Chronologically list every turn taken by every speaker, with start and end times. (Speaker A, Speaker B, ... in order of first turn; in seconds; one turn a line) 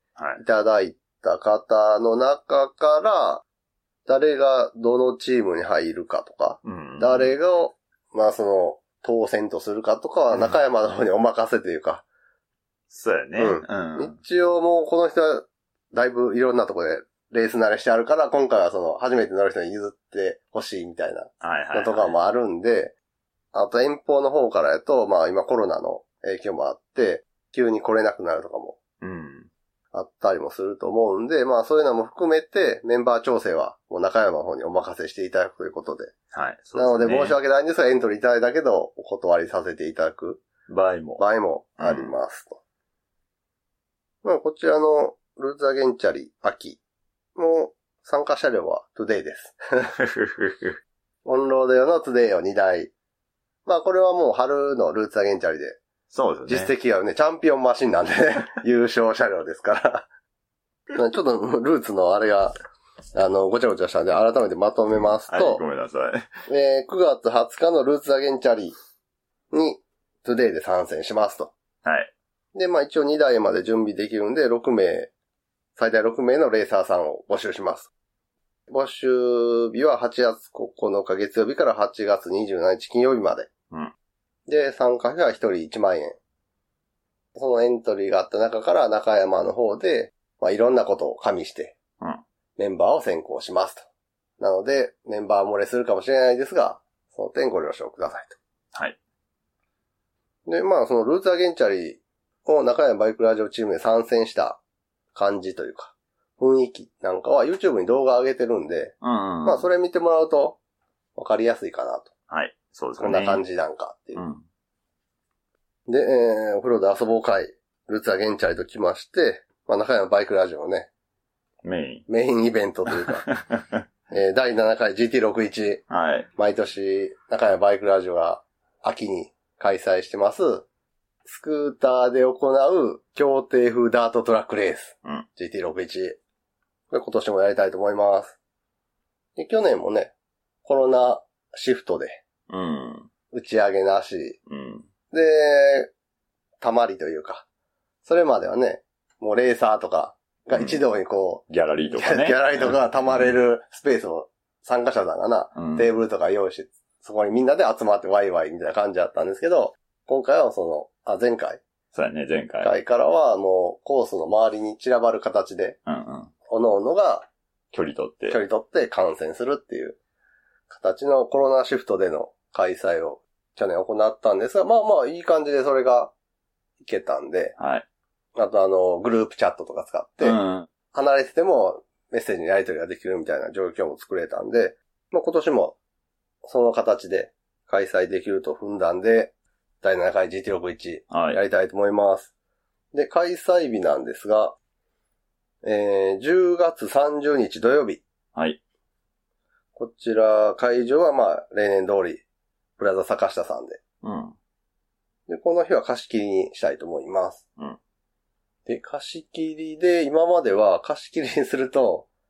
Speaker A: 0.1-0.4
Speaker B: 0.4-3.4
Speaker B: 4.0-12.0
Speaker A: 6.6-7.3
Speaker A: 12.9-14.2
Speaker B: 13.4-22.9
Speaker A: 21.4-22.2
Speaker B: 23.5-28.8
Speaker A: 29.0-29.5
Speaker B: 29.9-36.1
Speaker A: 36.3-37.4
Speaker B: 36.7-40.4
Speaker A: 40.7-41.2
Speaker B: 41.2-42.6
Speaker A: 41.8-42.1
Speaker B: 44.2-46.8
Speaker B: 47.4-49.9
Speaker A: 50.0-50.8
Speaker B: 51.2-52.9
Speaker B: 53.6-55.8
Speaker A: 56.1-56.7
Speaker B: 56.5-60.0
Speaker B: 60.9-62.5
Speaker B: 63.1-65.6
Speaker A: 65.3-66.3
Speaker B: 66.5-68.8
Speaker B: 69.5-71.5
Speaker A: 71.8-72.1
Speaker B: 72.5-75.1
Speaker B: 75.8-77.9
Speaker B: 78.7-83.5
Speaker B: 84.5-86.2
Speaker B: 87.3-91.8
Speaker B: 92.6-93.9
Speaker B: 94.4-98.3
Speaker B: 100.5-104.6
Speaker B: 105.1-110.6
Speaker A: 109.0-109.7
Speaker B: 111.2-112.1
Speaker A: 112.3-113.4
Speaker B: 113.0-114.2
Speaker A: 114.1-114.4
Speaker B: 115.9-120.9
Speaker A: 121.6-122.0
Speaker B: 122.1-123.3
Speaker A: 123.2-123.8
Speaker B: 124.1-125.8
Speaker A: 125.9-126.3
Speaker B: 126.4-130.7
Speaker B: 131.2-136.2
Speaker B: 136.9-138.4
Speaker B: 139.3-140.1
Speaker B: 140.6-142.2
Speaker A: 142.5-143.1
Speaker B: 143.3-144.4
Speaker A: 144.5-144.9
Speaker B: 145.1-145.9
Speaker B: 146.6-147.4
Speaker B: 148.0-161.6
Speaker A: 150.5-150.8
Speaker A: 151.5-153.2
Speaker A: 155.5-155.9
Speaker A: 161.9-162.7
Speaker B: 162.6-165.8
Speaker A: 165.8-166.3
Speaker B: 166.5-167.3
Speaker A: 167.7-168.4
Speaker B: 168.3-170.0
Speaker B: 170.7-176.1
Speaker B: 176.8-177.6
Speaker A: 177.6-177.8
Speaker B: 178.3-180.4
Speaker A: 180.2-180.7
Speaker B: 180.9-185.8
Speaker B: 186.4-192.3
Speaker A: 191.1-191.4
Speaker B: 192.9-194.6
Speaker B: 195.6-198.0
Speaker B: 199.8-202.2
Speaker B: 202.8-203.8
Speaker A: 204.0-204.3
Speaker B: 205.3-207.4
Speaker B: 208.7-212.1